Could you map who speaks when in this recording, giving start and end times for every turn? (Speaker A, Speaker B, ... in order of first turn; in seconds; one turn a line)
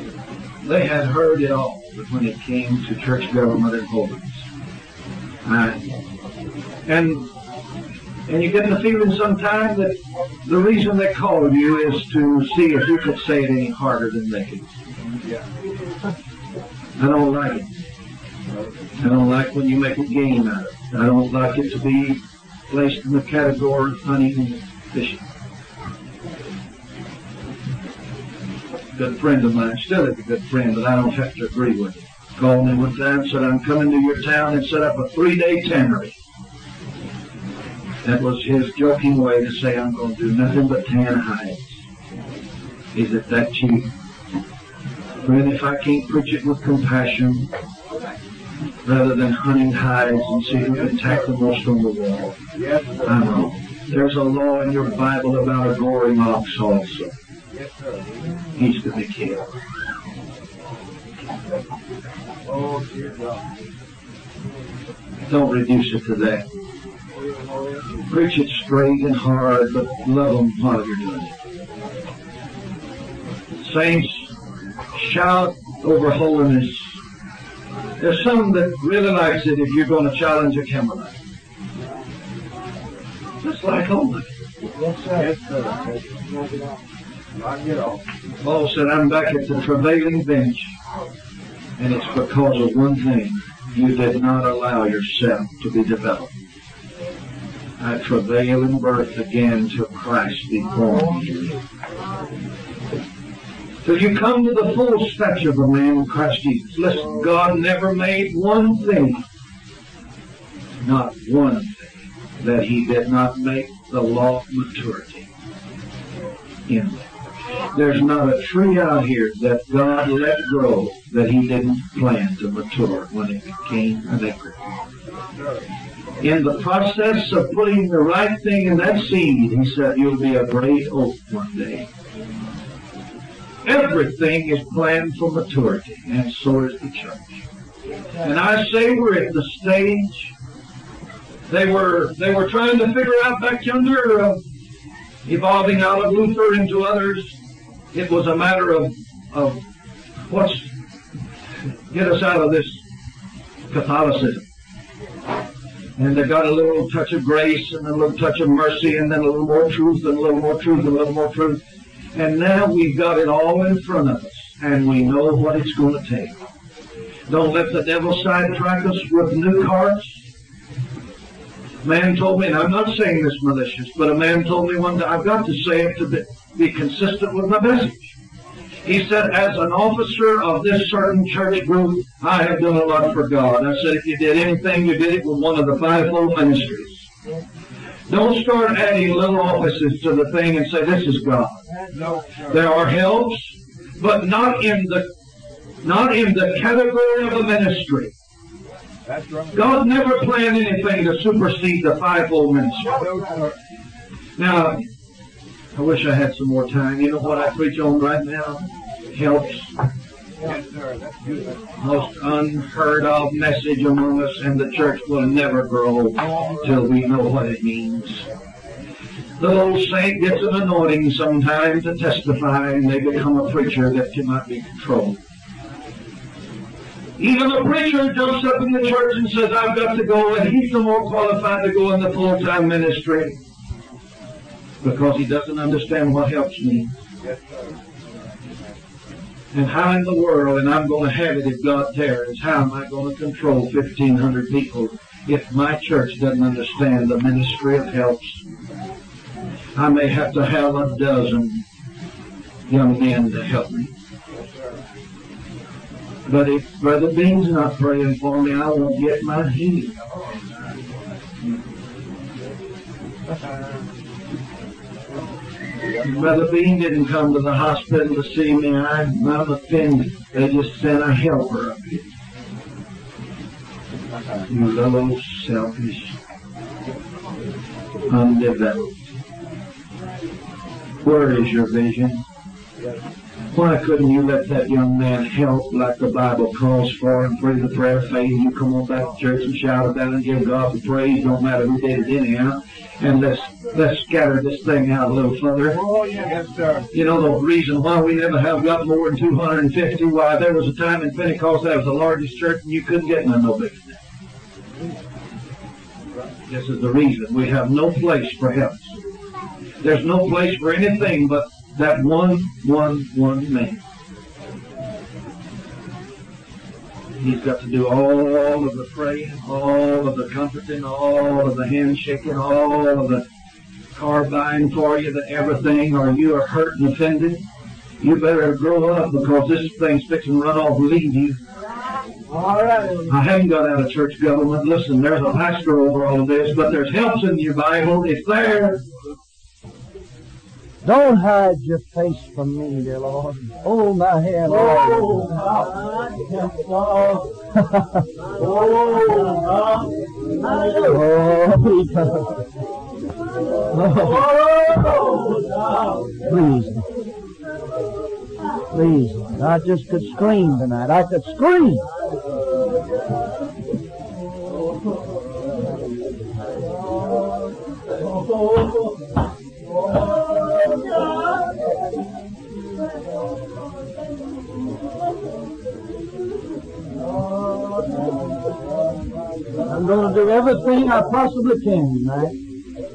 Speaker A: 0.6-4.5
Speaker A: 5.5-6.0
Speaker A: 6.9-7.2
Speaker A: 8.3-14.7
Speaker A: 17.0-17.7
Speaker A: 19.0-25.3
Speaker A: 28.9-36.2
Speaker A: 38.0-41.8
Speaker A: 42.9-43.9
Speaker A: 45.2-47.5
Speaker A: 48.9-52.4
Speaker B: 52.5-53.3
Speaker A: 53.0-57.1
Speaker B: 57.5-58.3
Speaker A: 58.6-59.5
Speaker B: 62.5-63.5
Speaker A: 65.3-66.5
Speaker A: 68.1-71.3
Speaker A: 73.6-74.3
Speaker A: 74.9-77.0
Speaker A: 78.0-81.2
Speaker A: 83.4-84.4
Speaker C: 84.8-85.2
Speaker B: 85.1-86.3
Speaker B: 87.4-88.1
Speaker A: 88.4-90.7
Speaker A: 91.8-96.3
Speaker A: 97.8-101.6
Speaker A: 103.8-109.2
Speaker A: 110.8-115.3
Speaker A: 116.7-117.1
Speaker A: 117.7-124.6
Speaker B: 125.4-125.7
Speaker A: 126.2-131.9
Speaker A: 133.7-137.4
Speaker A: 138.2-140.3
Speaker A: 141.5-144.4
Speaker A: 145.3-147.4
Speaker A: 147.9-149.6
Speaker A: 150.3-150.7
Speaker A: 151.9-152.8
Speaker A: 153.7-154.4
Speaker A: 156.0-161.6
Speaker A: 162.1-166.3
Speaker A: 167.3-170.2
Speaker A: 171.8-178.1
Speaker A: 178.8-187.1
Speaker A: 188.1-191.6
Speaker B: 191.9-192.6
Speaker A: 192.5-195.1
Speaker A: 195.8-198.1
Speaker B: 199.1-199.6
Speaker A: 199.5-203.0
Speaker B: 202.9-203.6
Speaker A: 204.4-204.9
Speaker A: 205.8-209.8
Speaker B: 210.4-211.7
Speaker A: 211.8-218.3
Speaker A: 219.4-225.2
Speaker A: 227.2-233.4
Speaker A: 234.8-236.9
Speaker B: 237.2-237.8
Speaker A: 239.5-248.4
Speaker A: 249.8-251.6
Speaker A: 252.7-253.9
Speaker A: 256.3-260.0
Speaker A: 266.0-272.1
Speaker A: 274.5-276.2
Speaker A: 278.1-279.1
Speaker A: 281.0-282.2
Speaker A: 283.5-295.8
Speaker B: 295.9-296.9
Speaker A: 296.9-304.0
Speaker A: 306.5-309.0
Speaker A: 309.8-313.8
Speaker A: 317.2-323.2
Speaker A: 323.9-327.4
Speaker A: 328.0-331.4
Speaker C: 332.3-333.1
Speaker A: 333.1-338.8
Speaker C: 340.8-345.4
Speaker C: 349.0-349.3
Speaker C: 350.6-352.4
Speaker C: 353.7-355.2
Speaker C: 356.2-356.9
Speaker C: 358.7-361.9
Speaker C: 379.6-382.4